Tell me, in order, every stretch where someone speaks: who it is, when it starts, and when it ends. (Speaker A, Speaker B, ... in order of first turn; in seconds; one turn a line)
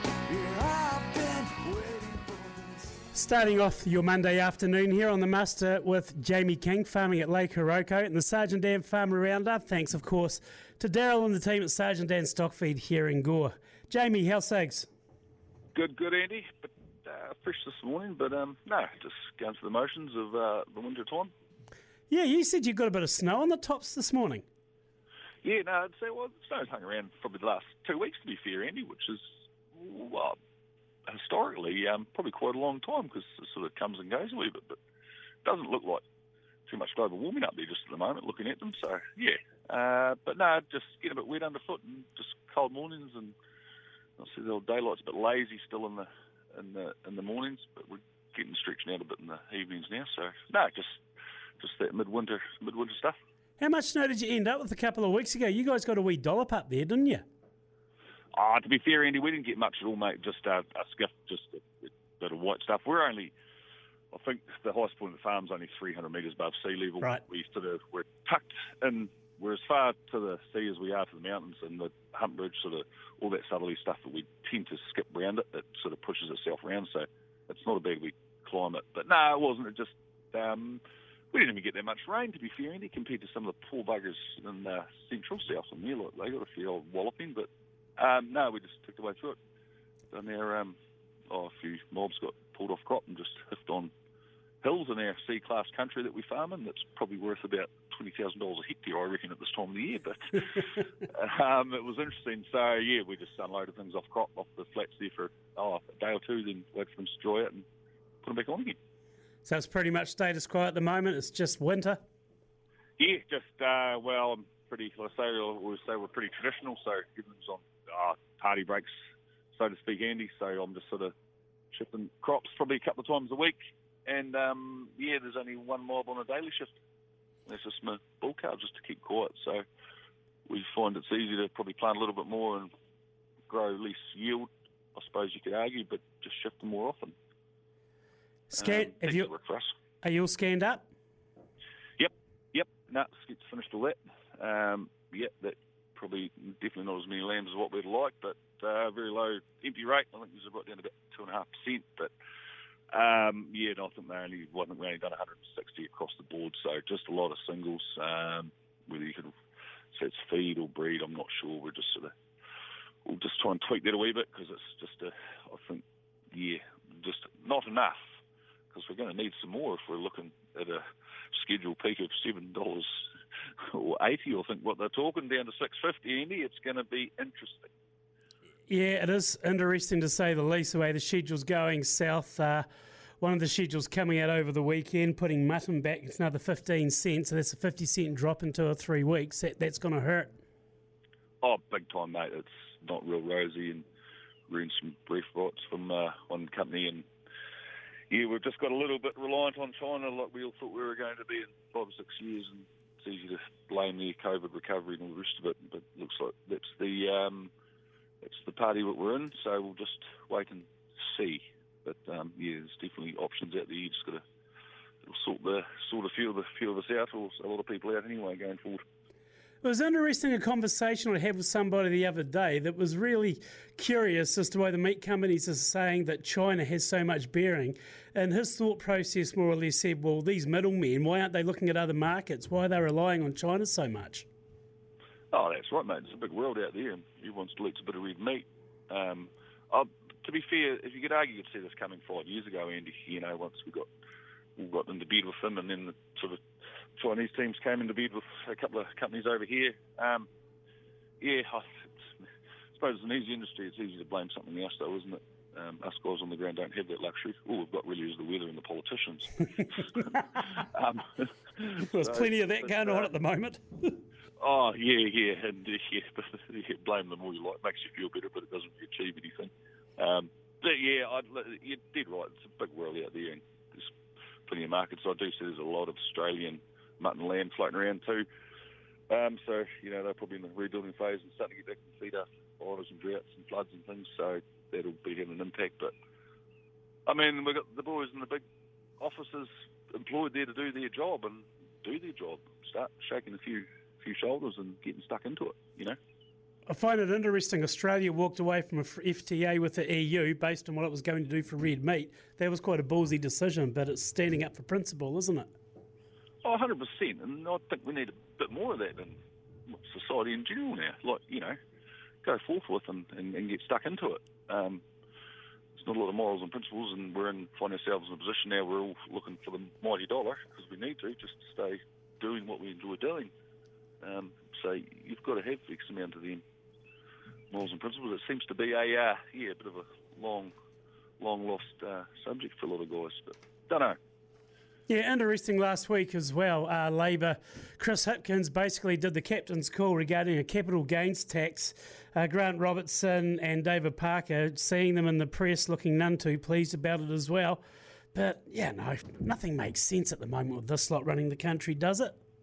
Speaker A: 0.3-2.9
Speaker B: 3.1-14.9
Speaker A: 15.8-21.3
Speaker B: 22.1-24.4
Speaker A: 25.4-30.4
Speaker A: 31.1-34.8
Speaker A: 35.5-36.0
Speaker A: 36.7-43.4
Speaker A: 44.2-51.0
Speaker A: 51.6-53.2
Speaker B: 53.6-57.2
Speaker A: 58.3-63.3
Speaker A: 64.1-89.4
Speaker A: 90.1-90.8
Speaker A: 91.3-93.9
Speaker A: 94.6-107.7
Speaker A: 108.2-108.8
Speaker B: 109.5-112.0
Speaker A: 113.0-118.9
Speaker A: 119.5-121.1
Speaker A: 121.7-126.8
Speaker A: 127.5-129.6
Speaker A: 130.5-132.7
Speaker A: 133.5-137.2
Speaker B: 138.5-139.3
Speaker A: 138.5-139.7
Speaker B: 140.0-140.9
Speaker A: 142.0-152.1
Speaker A: 152.9-159.3
Speaker A: 159.9-162.1
Speaker A: 163.1-168.0
Speaker A: 168.7-170.8
Speaker A: 171.3-173.0
Speaker A: 173.7-177.7
Speaker B: 178.7-182.7
Speaker B: 183.2-190.3
Speaker A: 191.4-193.8
Speaker A: 194.5-197.1
Speaker A: 198.1-207.5
Speaker A: 208.2-214.2
Speaker A: 215.1-218.8
Speaker B: 219.6-234.3
Speaker A: 235.3-243.9
Speaker A: 244.6-246.4
Speaker A: 247.0-250.3
Speaker A: 251.2-263.1
Speaker B: 261.9-264.0
Speaker A: 264.4-273.9
Speaker A: 274.5-278.3
Speaker A: 279.1-285.9
Speaker A: 287.1-288.4
Speaker A: 289.0-296.0
Speaker B: 296.7-305.5
Speaker A: 306.4-309.2
Speaker A: 309.7-311.6
Speaker A: 312.2-314.8
Speaker A: 315.7-323.3
Speaker A: 324.0-326.4
Speaker A: 327.5-330.5
Speaker A: 331.2-334.0
Speaker B: 334.9-347.6
Speaker B: 348.1-352.2